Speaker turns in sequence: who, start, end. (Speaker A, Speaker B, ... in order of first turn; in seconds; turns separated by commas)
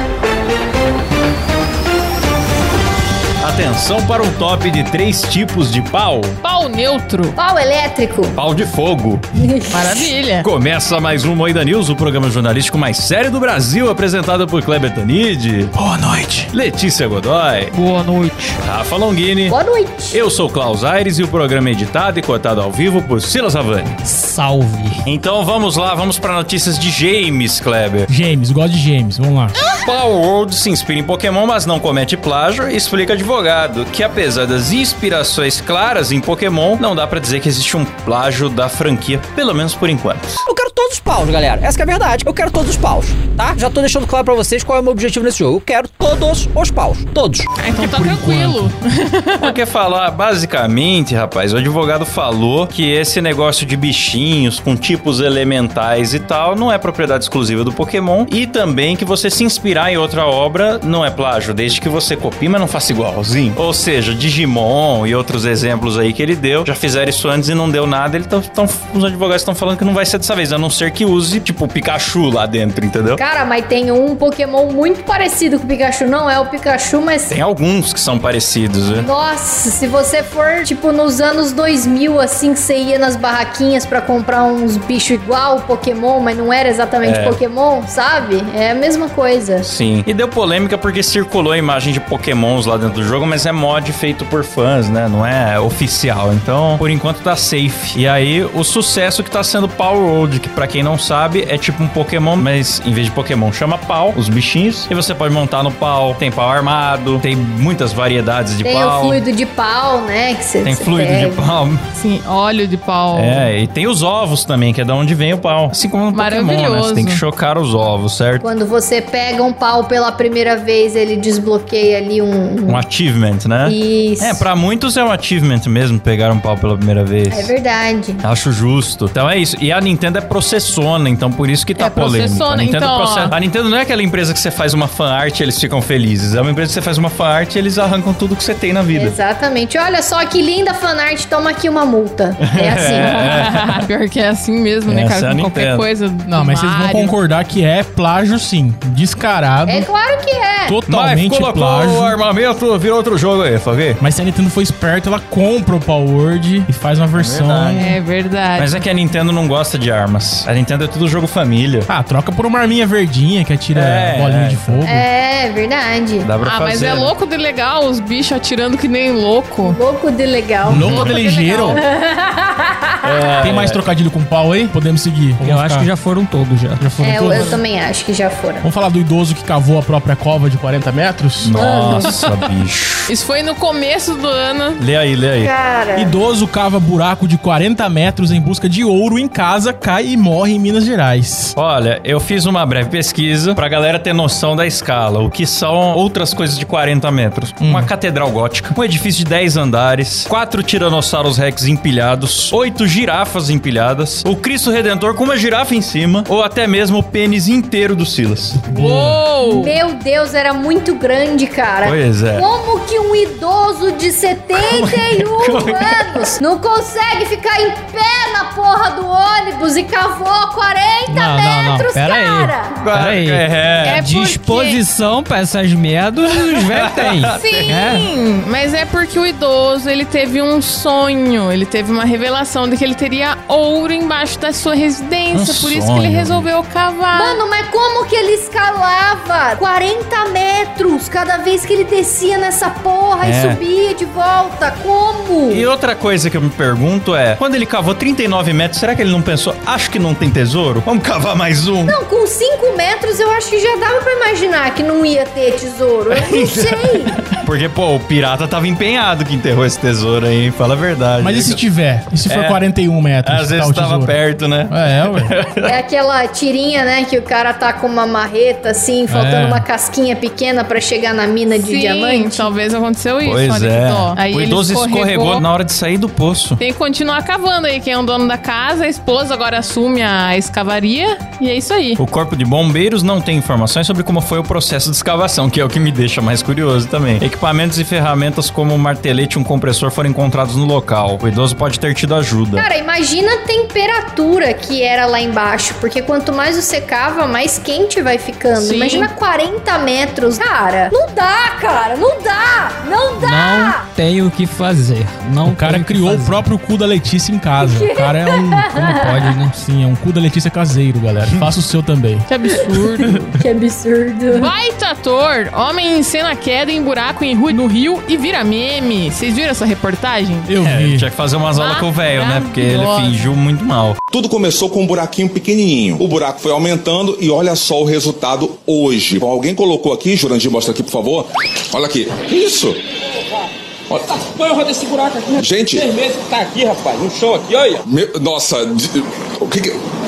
Speaker A: 3.4-6.4, Speaker B: 6.4-7.3, Speaker C: 7.4-8.4, Speaker A: 8.3-9.2, Speaker C: 9.4-10.1, Speaker B: 9.7-10.5, Speaker A: 10.4-15.7, Speaker D: 15.8-16.5, Speaker A: 16.5-17.7, Speaker E: 17.7-18.6, Speaker A: 18.6-19.6, Speaker C: 19.5-20.2, Speaker A: 20.1-23.9, Speaker E: 24.0-25.0, Speaker A: 25.0-28.1, Speaker D: 28.1-29.6, Speaker A: 29.6-40.4, Speaker F: 40.5-47.5, Speaker B: 47.6-49.5, Speaker D: 47.6-48.7, Speaker A: 49.4-73.2, Speaker C: 73.2-77.4, Speaker A: 77.3-79.1, Speaker C: 78.9-89.7, Speaker A: 87.0-87.4, Speaker A: 89.6-109.2, Speaker C: 108.6-111.4, Speaker A: 110.6-111.8, Speaker B: 112.0-113.5, Speaker A: 113.1-118.5, Speaker B: 116.1-117.2, Speaker C: 118.4-122.8, Speaker A: 122.7-127.5, Speaker C: 123.6-124.5, Speaker C: 127.3-128.2, Speaker A: 128.2-139.2, Speaker B: 131.8-133.3, Speaker C: 138.9-143.2, Speaker A: 142.6-143.8, Speaker B: 142.9-147.2, Speaker A: 144.8-145.8, Speaker D: 146.3-149.9, Speaker C: 149.7-150.8, Speaker D: 150.7-152.2, Speaker A: 150.9-154.0, Speaker D: 154.0-158.0, Speaker A: 157.1-157.9, Speaker B: 157.8-158.8, Speaker A: 158.6-161.9, Speaker D: 161.9-165.1, Speaker A: 163.7-164.9, Speaker C: 164.8-166.3, Speaker A: 166.2-167.1, Speaker B: 166.4-169.8, Speaker C: 169.6-173.0, Speaker D: 170.7-171.8, Speaker A: 170.7-171.2, Speaker B: 171.0-171.8, Speaker A: 173.0-173.8, Speaker D: 173.4-175.9, Speaker E: 175.4-177.1, Speaker D: 176.8-177.6, Speaker C: 177.0-178.7, Speaker B: 177.2-177.6, Speaker D: 178.6-181.6, Speaker A: 181.4-183.1, Speaker C: 181.5-182.2, Speaker B: 183.1-184.8, Speaker A: 184.8-185.5, Speaker C: 185.4-186.2, Speaker D: 185.9-191.5, Speaker A: 191.5-208.7, Speaker D: 197.6-197.9, Speaker B: 208.7-209.8, Speaker D: 208.8-209.3, Speaker C: 209.4-222.8, Speaker A: 211.8-212.5, Speaker A: 214.6-216.3, Speaker E: 221.1-228.1, Speaker A: 222.8-224.0, Speaker B: 223.8-224.8, Speaker A: 226.5-227.8, Speaker B: 227.2-237.4, Speaker A: 235.3-236.5, Speaker C: 237.1-245.7, Speaker A: 243.2-243.6, Speaker A: 245.5-252.0, Speaker C: 251.8-257.2, Speaker A: 256.1-261.6, Speaker D: 261.2-265.3, Speaker A: 262.2-262.7, Speaker A: 263.2-265.7, Speaker C: 265.6-272.5, Speaker D: 269.1-269.6, Speaker B: 271.5-275.4, Speaker A: 273.2-276.6, Speaker B: 276.6-282.0, Speaker A: 282.0-292.7, Speaker C: 292.5-303.8, Speaker B: 298.5-299.1, Speaker E: 303.2-306.5, Speaker D: 305.4-308.7, Speaker C: 307.6-309.4, Speaker E: 308.7-309.6, Speaker D: 309.4-312.2, Speaker B: 312.2-313.3, Speaker C: 312.7-314.5, Speaker B: 314.3-320.5, Speaker D: 320.5-321.1, Speaker A: 320.6-324.0, Speaker B: 321.5-323.3, Speaker G: 324.1-332.8, Speaker G: 335.4-335.9, Speaker G: 336.9-339.8